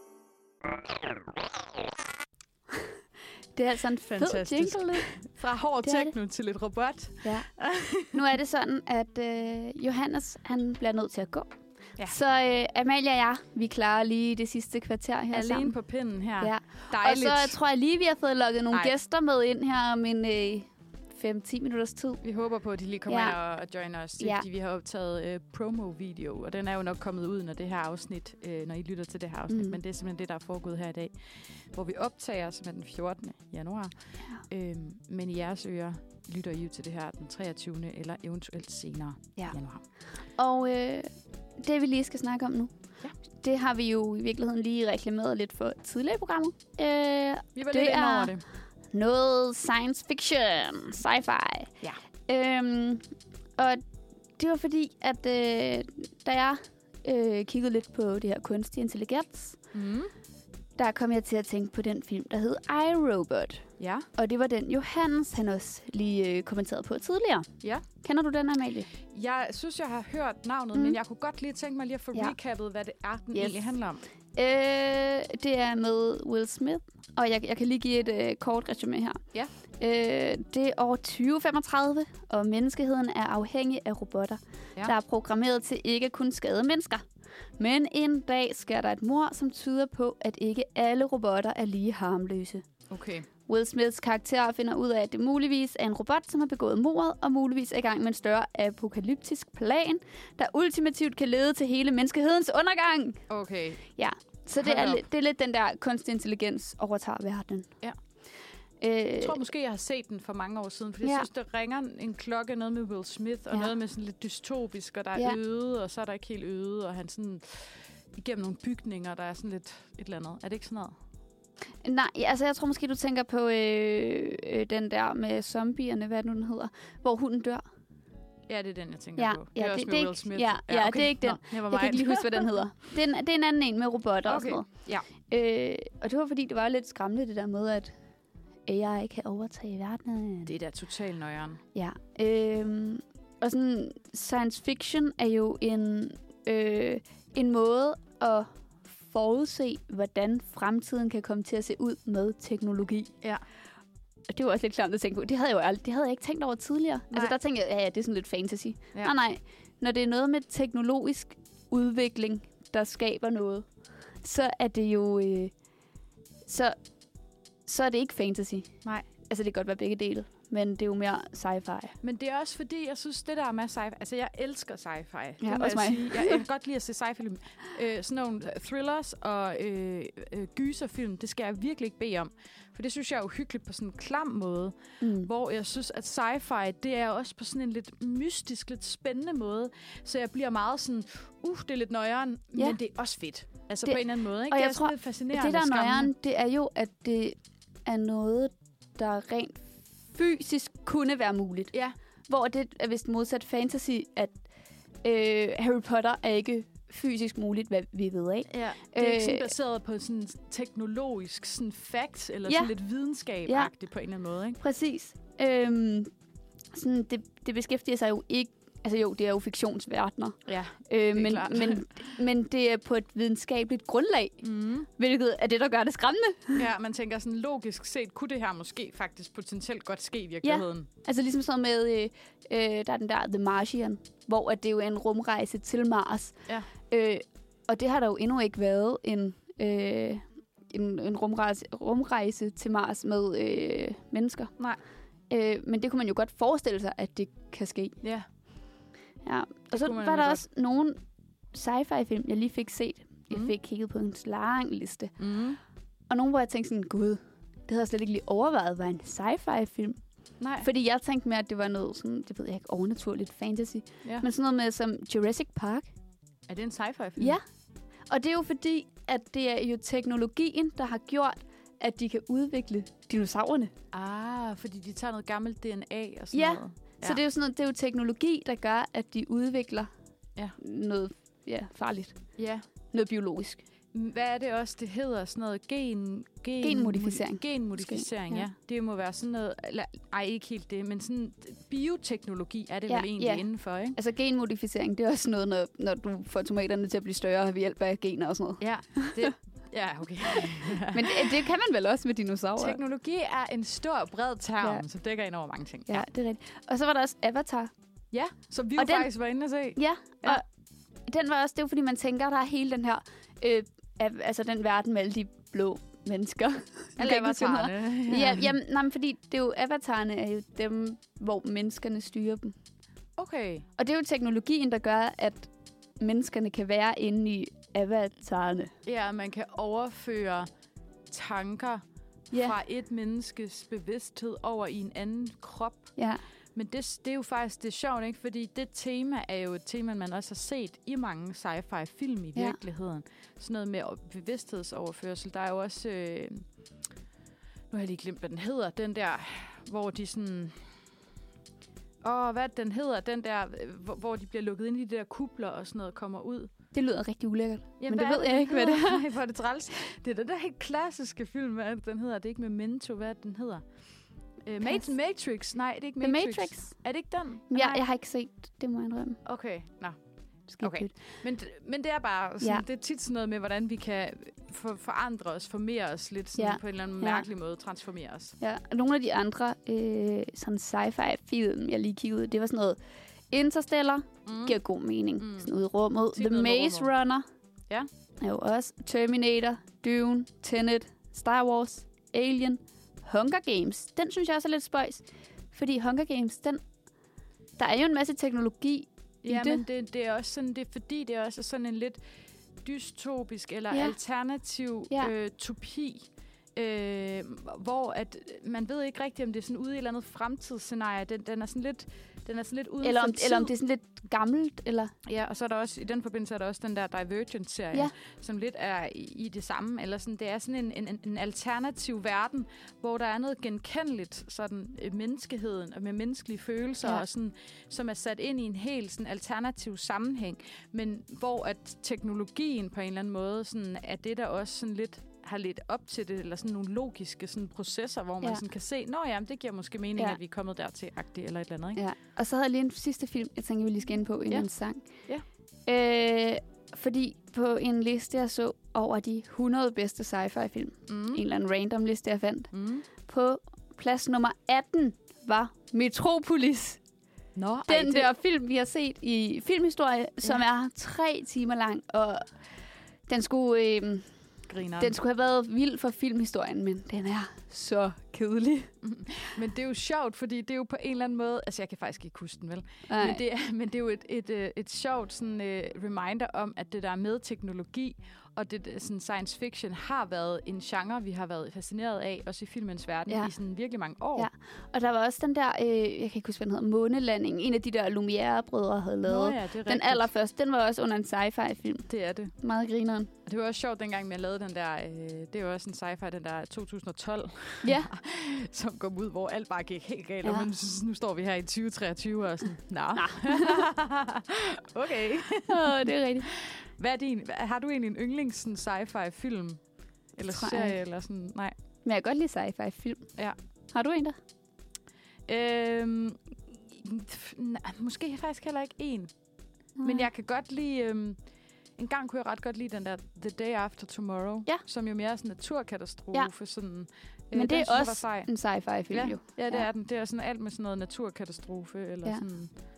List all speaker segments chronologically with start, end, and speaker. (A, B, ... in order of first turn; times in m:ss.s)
0:03.5-0:05.3 A
0:04.1-0:08.1 B
0:05.8-0:06.1 A
0:07.2-0:15.7 A
0:15.3-0:17.6 B
0:16.4-0:22.2 A
0:22.2-0:39.8 B
0:23.1-0:23.4 A
0:24.2-0:24.4 A
0:29.5-0:29.8 A
0:40.3-0:42.7 A
0:43.3-0:48.3 A
0:47.6-0:48.4 B
0:48.9-0:51.7 A
0:52.3-0:53.8 A
0:54.4-0:59.6 A
0:59.7-1:00.1 B
1:00.8-1:03.6 A
1:03.8-1:04.1 B
1:04.2-1:07.5 A
1:08.0-1:08.9 A
1:09.1-1:14.0 B
1:13.3-1:13.6 A
1:14.3-1:19.2 A
1:19.8-1:27.0 A
1:27.6-1:32.6 A
1:32.9-1:33.3 B
1:33.5-1:43.2 A
1:43.3-1:43.9 B
1:44.0-1:47.7 A
1:44.6-1:45.0 B
1:48.8-1:49.4 A
1:49.2-2:00.9 B
2:01.8-2:07.6 A
2:08.5-2:12.6 B
2:09.2-2:17.9 A
2:14.2-2:15.0 B
2:18.6-2:20.5 A
2:20.4-2:21.6 B
2:21.7-2:33.1 A
2:34.3-2:43.7 A
2:44.2-2:45.5 A
2:46.4-2:46.8 A
2:47.6-2:51.9 A
2:52.0-3:16.1 B
2:55.4-2:56.4 A
3:05.0-3:05.3 A
3:13.8-3:21.7 A
3:22.3-3:24.4 A
3:25.0-3:29.5 A
3:28.5-3:34.6 B
3:32.5-3:32.7 A
3:33.4-3:33.7 A
3:34.6-3:36.1 A
3:36.7-3:46.6 A
3:40.5-3:41.9 B
3:44.4-3:44.9 B
3:46.5-3:50.9 B
3:50.4-4:04.5 A
4:05.3-4:08.0 A
4:09.2-4:11.0 A
4:09.7-4:10.4 B
4:11.5-4:15.2 A
4:15.2-4:15.6 B
4:16.1-4:20.0 A
4:20.4-4:20.6 B
4:20.6-4:25.9 A
4:26.5-4:27.4 B
4:27.2-4:27.4 A
4:28.1-4:33.7 A
4:33.9-4:37.2 B
4:36.3-4:39.9 A
4:40.6-4:42.2 A
4:42.4-4:42.6 B
4:42.9-4:43.6 A
4:43.9-4:54.0 B
4:46.6-4:48.5 A
4:52.9-4:59.3 A
4:58.6-5:01.4 B
5:00.3-5:02.8 A
5:02.6-5:06.0 B
5:05.9-5:07.7 A
5:08.1-5:10.4 B
5:08.8-5:09.1 A
5:09.8-5:10.4 A
5:11.1-5:22.5 A
5:17.0-5:18.5 B
5:23.2-5:23.7 B
5:23.8-5:28.7 A
5:28.8-5:30.5 B
5:31.1-5:36.0 B
5:32.3-5:32.6 A
5:36.5-5:46.4 B
5:47.7-5:50.6 B
5:52.0-5:56.5 B
5:56.7-5:59.0 A
5:57.8-6:03.6 B
6:04.4-6:07.8 B
6:04.6-6:04.9 A
6:06.0-6:06.7 A
6:07.5-6:09.2 A
6:09.2-6:10.0 B
6:10.5-6:10.9 A
6:10.6-6:18.4 B
6:16.4-6:17.3 A
6:18.4-6:22.8 A
6:23.3-6:27.2 A
6:24.2-6:24.6 B
6:25.2-6:25.5 B
6:26.1-6:26.9 B
6:28.2-6:36.6 A
6:37.6-6:39.6 A
6:39.2-6:42.0 B
6:42.6-6:46.0 B
6:43.7-6:44.0 A
6:46.6-6:53.5 B
6:52.8-6:54.9 A
6:55.0-7:21.8 B
7:21.8-7:24.9 A
7:25.7-7:36.8 A
7:30.9-7:31.2 B
7:32.5-7:32.8 B
7:37.3-7:38.1 B
7:37.7-7:42.3 A
7:43.1-7:44.1 A
7:44.5-7:45.0 B
7:44.8-7:48.7 A
7:48.8-8:04.3 B
7:52.9-7:53.2 A
8:04.2-8:11.9 A
8:09.0-8:10.0 B
8:11.9-8:12.3 B
8:12.4-8:13.1 A
8:13.2-8:25.6 B
8:17.6-8:17.9 A
8:23.0-8:23.6 A
8:25.5-8:26.3 A
8:26.3-8:29.6 B
8:30.2-8:31.5 B
8:30.2-8:30.8 A
8:31.8-8:33.1 A
8:33.7-8:34.2 A
8:35.3-8:39.1 B
8:39.8-8:40.1 A
8:39.8-8:41.2 B
8:41.8-8:52.5 B
8:47.3-8:49.7 A